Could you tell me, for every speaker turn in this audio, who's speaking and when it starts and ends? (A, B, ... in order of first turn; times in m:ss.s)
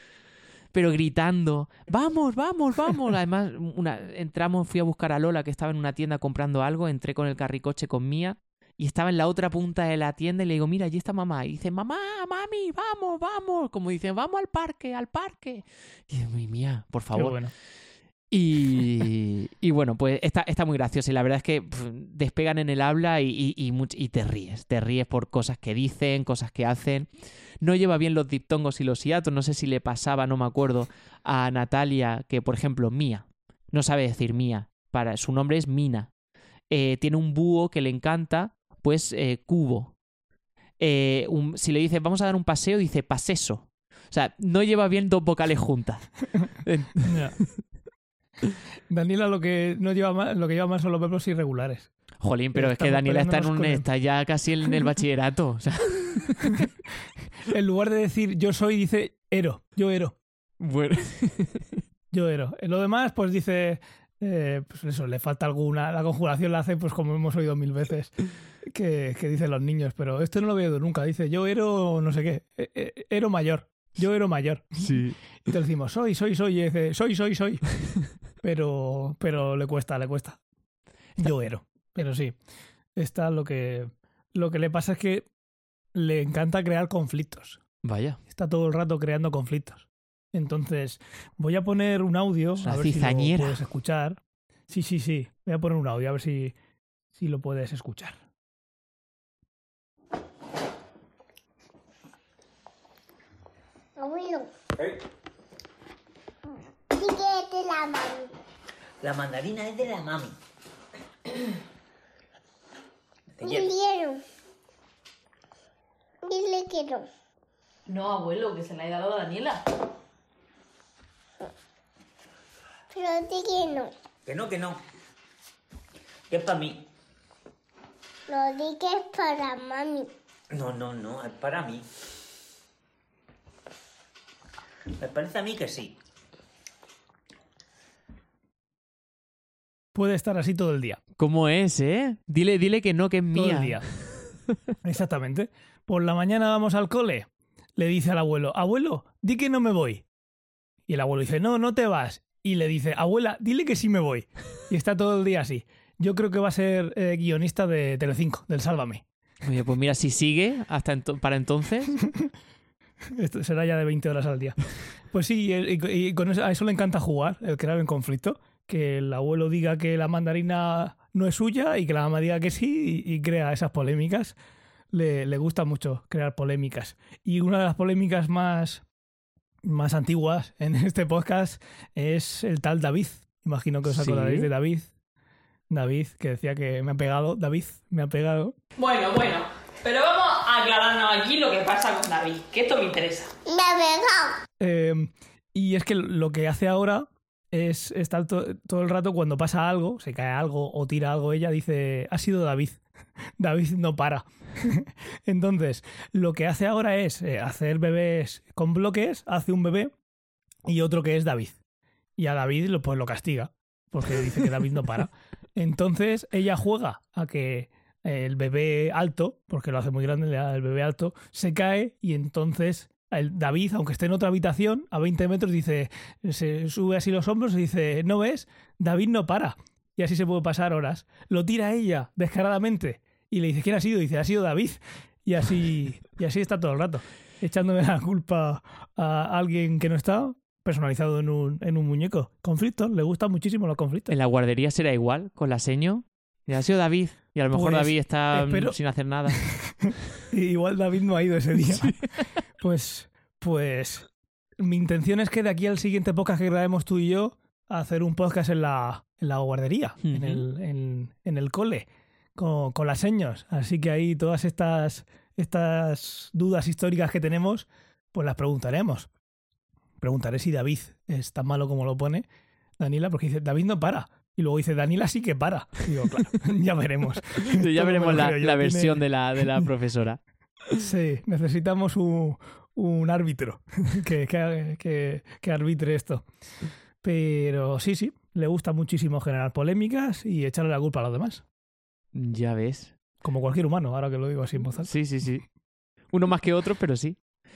0:00.7-0:17.4 A
0:17.1-0:17.5 B
0:18.3-0:36.1 A
0:36.7-0:39.9 A
0:40.8-0:47.4 A
0:47.0-0:47.4 B
0:48.9-0:51.9 B
0:52.2-0:56.7 A
0:52.5-0:53.9 B
0:57.4-1:00.2 B
1:00.6-1:01.8 A
1:02.1-1:14.9 B
1:14.8-1:15.3 A
1:15.4-1:17.6 B
1:18.4-1:20.4 B
1:21.2-1:22.4 B
1:23.0-1:25.3 B
1:25.9-1:27.6 B
1:27.8-1:28.2 A
1:28.3-1:34.2 B
1:32.6-1:33.6 A
1:34.7-1:36.6 B
1:37.1-1:38.2 B
1:44.0-1:44.5 C
1:46.9-1:48.3 C
1:49.0-1:50.4 D
1:53.4-1:53.6 D
1:53.4-1:54.2 C
1:56.2-1:57.1 C
1:57.9-1:59.6 E
2:02.9-2:03.9 C
2:04.3-2:04.8 D
2:06.3-2:06.8 D
2:08.3-2:10.1 C
2:10.5-2:11.9 D
2:14.9-2:16.0 D
2:20.0-2:21.0 B
2:21.2-2:23.8 A
2:23.3-2:23.9 B
2:24.8-2:30.0 B
2:30.9-2:39.0 B
2:39.4-2:42.0 A
2:43.1-2:44.6 B
2:45.1-2:54.4 B
2:54.9-2:58.8 B
2:59.6-3:04.9 B
3:03.9-3:04.5 A
3:05.7-3:08.6 B
3:10.8-3:11.4 E
3:12.1-3:13.3 E
3:13.5-3:14.3 C
3:14.6-3:22.8 B
3:23.4-3:29.9 B
3:30.7-3:31.6 B
3:32.2-4:04.1 B
4:04.1-4:09.4 A
4:07.5-4:08.8 B
4:09.3-4:12.0 B
4:11.6-4:12.1 A
4:12.6-4:14.1 B
4:14.6-4:29.1 B
4:20.0-4:20.4 A
4:30.0-4:32.2 B
4:32.8-4:39.0 B
4:37.4-4:40.2 A
4:40.8-4:46.3 B
4:47.0-4:51.4 B
4:52.1-4:52.9 A
4:53.2-4:54.9 B
4:54.8-4:55.4 A
4:56.1-4:57.2 A